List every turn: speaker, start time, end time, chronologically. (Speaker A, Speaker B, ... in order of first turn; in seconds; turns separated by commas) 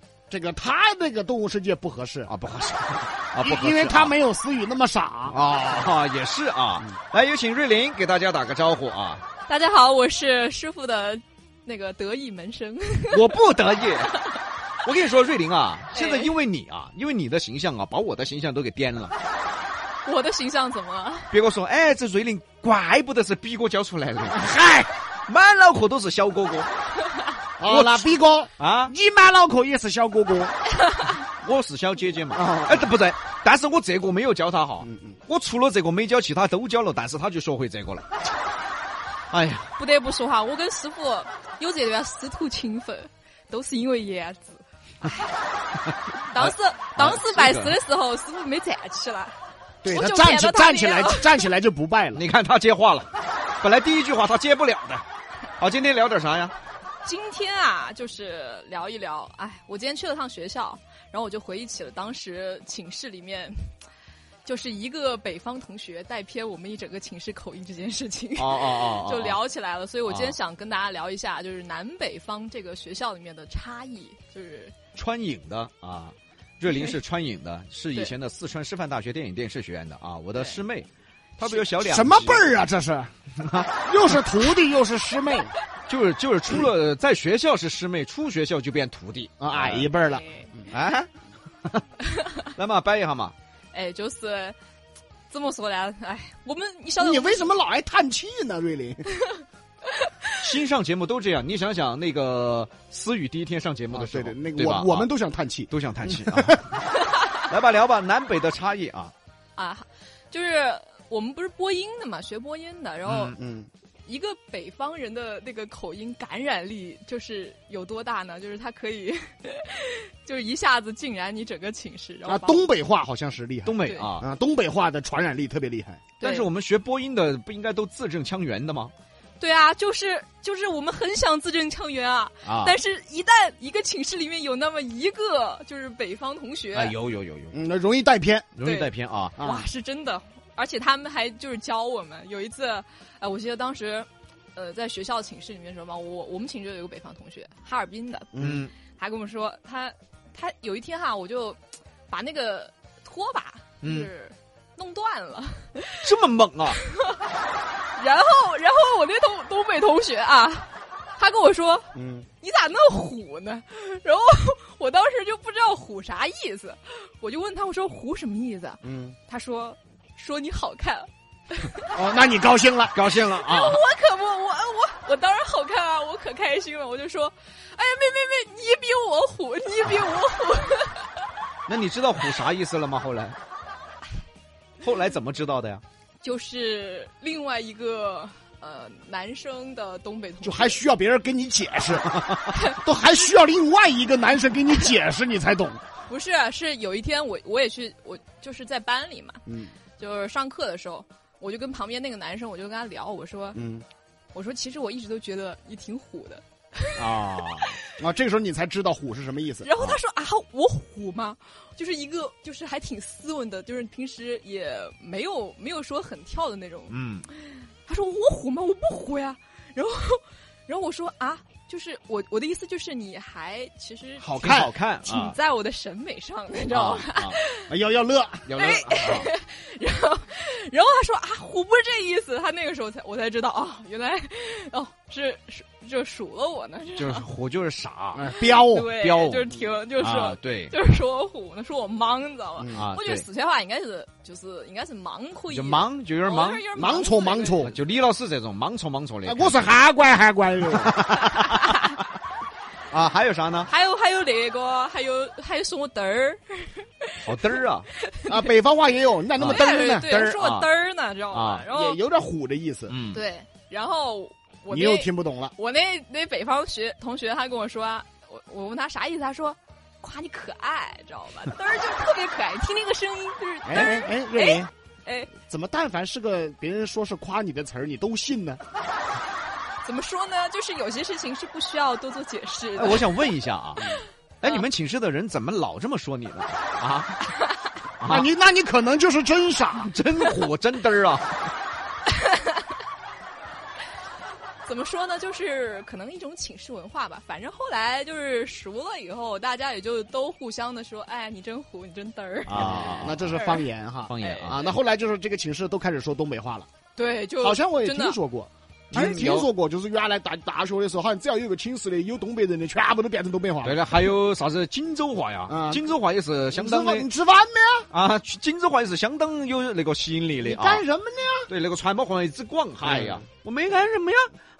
Speaker A: 0.3-2.3, Speaker B: 2.3-4.2, Speaker A: 3.4-5.4, Speaker B: 5.3-9.2, Speaker C: 9.5-13.2, Speaker B: 13.1-14.2, Speaker B: 14.8-19.1, Speaker C: 15.9-16.3, Speaker C: 20.0-21.3, Speaker B: 21.3-24.5, Speaker A: 24.3-24.9, Speaker B: 25.3-26.7, Speaker A: 27.6-30.6, Speaker B: 27.6-28.9, Speaker B: 31.4-38.0, Speaker A: 32.3-32.9, Speaker A: 34.8-35.2, Speaker B: 39.3-39.7, Speaker C: 39.8-45.4, Speaker C: 46.3-51.4, Speaker B: 46.4-47.8, Speaker A: 49.8-52.2, Speaker B: 52.1-53.1, Speaker B: 53.6-55.0, Speaker B: 55.6-56.5, Speaker C: 57.0-63.7, Speaker C: 64.4-74.8, Speaker B: 68.4-69.4, Speaker B: 70.0-70.3, Speaker B: 74.9-82.4, Speaker C: 76.7-76.9, Speaker C: 80.3-80.6, Speaker A: 81.4-83.1, Speaker B: 83.4-83.8, Speaker A: 83.8-85.5, Speaker B: 85.9-89.9, Speaker A: 89.4-90.2, Speaker C: 90.0-90.7, Speaker B: 90.7-91.1, Speaker B: 92.5-93.3, Speaker C: 93.7-94.6, Speaker C: 95.3-97.5, Speaker A: 97.0-99.1, Speaker C: 99.1-100.3, Speaker B: 100.4-105.1, Speaker A: 103.9-106.6, Speaker B: 105.7-106.8, Speaker B: 107.4-109.1, Speaker C: 109.5-113.3, Speaker B: 113.0-113.3, Speaker A: 113.3-113.7, Speaker C: 114.0-122.7, Speaker A: 122.2-126.0, Speaker B: 123.6-124.3, Speaker C: 123.8-124.1, Speaker C: 126.2-126.5, Speaker B: 126.2-128.9, Speaker C: 129.4-136.9, Speaker B: 132.4-132.7, Speaker B: 136.7-137.6, Speaker A: 137.5-138.5, Speaker B: 138.6-139.4, Speaker C: 138.6-148.3, Speaker A: 139.4-139.7, Speaker A: 148.3-148.6, Speaker B: 148.4-148.7, Speaker C: 148.9-156.1, Speaker B: 153.8-154.1, Speaker B: 156.0-156.8, Speaker C: 156.7-157.2, Speaker C: 157.9-161.9, Speaker A: 161.9-162.3, Speaker C: 162.4-171.9, Speaker A: 168.8-169.2, Speaker A: 171.9-172.9, Speaker B: 172.9-173.8, Speaker C: 173.3-181.2, Speaker B: 181.7-183.4, Speaker B: 184.8-185.8, Speaker C: 186.2-190.8, Speaker A: 190.4-195.8, Speaker C: 196.1-199.4, Speaker A: 199.5-199.7, Speaker C: 200.0-203.6, Speaker A: 203.5-203.8, Speaker C: 204.3-207.0, Speaker B: 206.9-207.8, Speaker A: 208.0-210.0, Speaker C: 209.6-227.6, Speaker B: 216.9-217.2, Speaker B: 224.2-225.3, Speaker A: 224.4-224.7, Speaker B: 226.7-227.4, Speaker A: 227.7-228.5, Speaker B: 228.4-229.3, Speaker C: 228.6-237.2, Speaker B: 237.0-238.3, Speaker A: 238.2-238.9, Speaker C: 238.2-247.7, Speaker B: 238.9-240.7, Speaker B: 242.7-243.2, Speaker B: 245.5-246.7, Speaker A: 246.7-247.7, Speaker B: 247.6-249.6, Speaker A: 249.2-251.0, Speaker B: 250.7-251.9, Speaker C: 251.3-251.9, Speaker B: 252.9-253.7, Speaker C: 253.7-258.3, Speaker B: 257.2-257.9, Speaker A: 258.3-260.4, Speaker C: 259.4-262.0, Speaker B: 260.4-260.7, Speaker B: 261.3-261.7, Speaker A: 261.7-262.9, Speaker B: 262.9-263.2, Speaker C: 263.1-275.3, Speaker A: 264.7-265.5, Speaker A: 273.6-274.7, Speaker A: 275.4-278.6, Speaker C: 279.8-283.2, Speaker B: 282.8-287.2, Speaker C: 283.8-284.6, Speaker B: 288.0-288.3, Speaker A: 288.0-289.9, Speaker B: 289.7-291.5, Speaker C: 292.1-292.6, Speaker C: 294.6-303.6, Speaker B: 302.5-303.3, Speaker A: 302.5-306.7, Speaker B: 304.1-304.6, Speaker C: 304.2-304.7, Speaker C: 306.9-308.2, Speaker A: 307.4-313.8, Speaker B: 308.9-309.5, Speaker B: 313.6-317.1, Speaker A: 315.5-315.9, Speaker A: 316.5-317.9, Speaker B: 317.9-320.8, Speaker A: 320.4-321.5, Speaker B: 321.5-324.2, Speaker A: 322.8-323.2